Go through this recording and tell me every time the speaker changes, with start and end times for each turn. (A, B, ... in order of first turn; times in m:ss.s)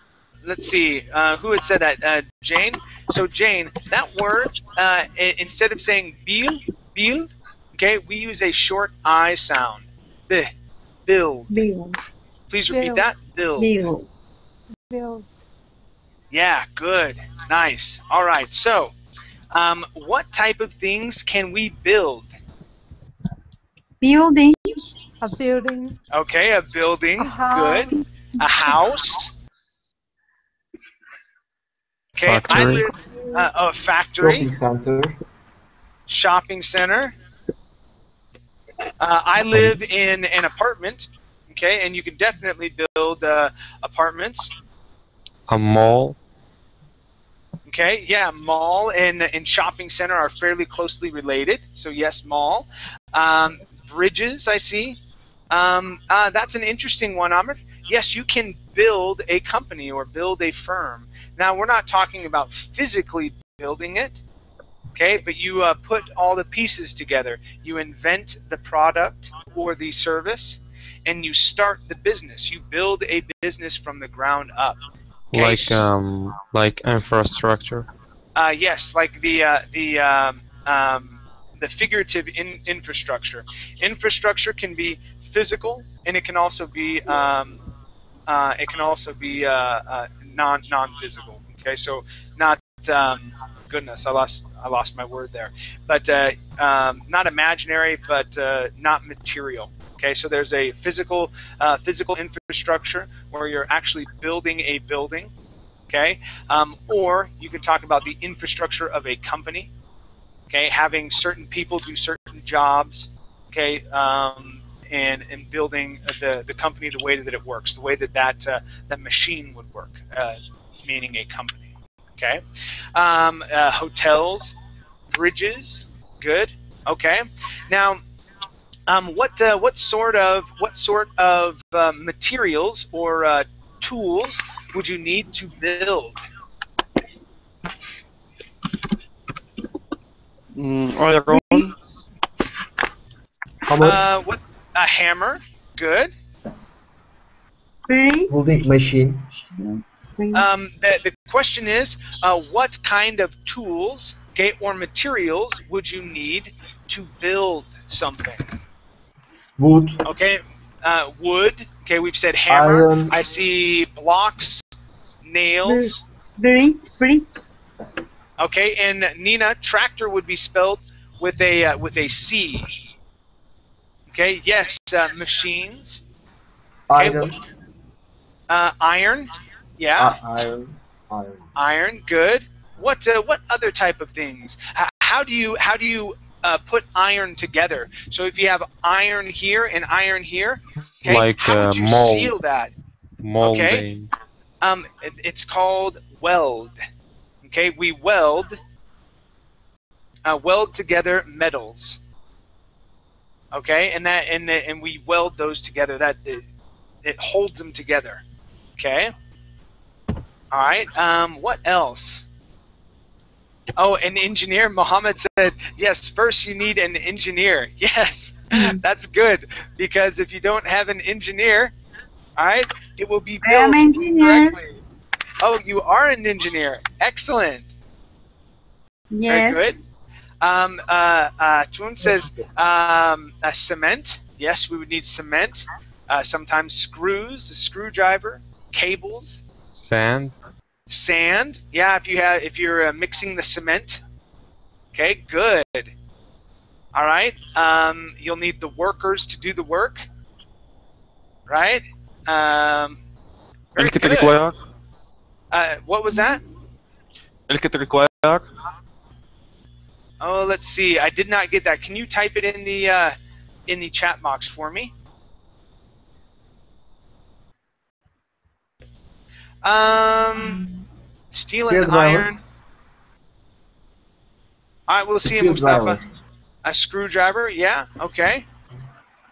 0:00.4-0:10.5 A
0:11.1-0:11.5 A
0:11.5-0:12.0 B
0:12.5-0:13.8 A
0:12.7-0:13.1 C
0:13.6-0:14.1 B
0:14.7-0:15.4 C
0:16.3-0:18.9 A
0:19.5-0:22.3 A
0:24.0-0:24.8 B
0:25.2-0:26.0 C
0:26.1-0:29.3 A
0:27.2-0:28.0 C
0:32.2-0:34.5 A
0:32.2-0:32.9 D
0:34.2-0:35.2 E
0:36.1-0:37.1 A
0:39.0-0:44.5 A
0:39.5-0:39.8 D
0:45.5-0:46.2 D
0:47.7-0:55.0 A
0:55.5-1:04.2 A
1:05.0-1:14.8 A
1:15.3-1:15.9 A
1:15.3-1:17.9 D
1:18.4-1:27.6 A
1:28.3-1:45.3 A
1:45.9-1:49.7 A
1:50.5-2:02.4 A
2:03.0-2:04.6 A
2:05.1-2:08.0 A
2:08.9-2:16.2 A
2:20.6-2:21.7 F
2:23.7-2:24.0 E
2:23.8-2:26.1 A
2:27.9-2:28.5 B
2:28.3-2:29.3 E
2:29.6-2:30.5 B
2:30.3-2:38.5 A
2:39.6-2:40.0 E
2:40.0-2:44.6 A
2:42.5-2:43.1 E
2:45.2-2:46.0 A
2:45.6-2:47.5 B
2:48.4-2:52.7 A
2:54.1-2:56.0 A
2:56.9-2:57.3 E
2:57.0-2:57.3 A
2:58.5-3:00.2 A
3:00.0-3:01.5 E
3:01.6-3:12.7 A
3:11.0-3:12.4 D
3:13.2-3:14.1 D
3:13.4-3:13.9 A
3:14.6-3:16.8 A
3:17.4-3:18.6 A
3:20.2-3:22.0 A
3:23.5-3:26.5 A
3:27.0-3:28.2 A
3:28.8-3:29.1 A
3:30.5-3:32.2 A
3:33.8-3:41.7 A
3:42.4-3:44.8 A
3:43.4-3:44.6 B
3:45.4-3:47.7 A
3:49.1-3:49.8 B
3:49.3-3:49.8 A
3:50.4-3:59.4 A
3:59.7-4:00.4 D
4:00.9-4:04.0 A
4:04.9-4:05.9 A
4:07.0-4:10.1 A
4:11.5-4:13.0 A
4:13.8-4:14.4 A
4:13.8-4:14.6 F
4:15.5-4:16.4 A
4:17.5-4:18.4 F
4:20.2-4:23.2 A
4:23.7-4:24.9 A
4:29.6-4:30.7 A
4:31.3-4:32.4 A
4:31.7-4:32.3 E
4:34.9-4:36.0 A
4:35.3-4:36.0 E
4:36.6-4:38.5 A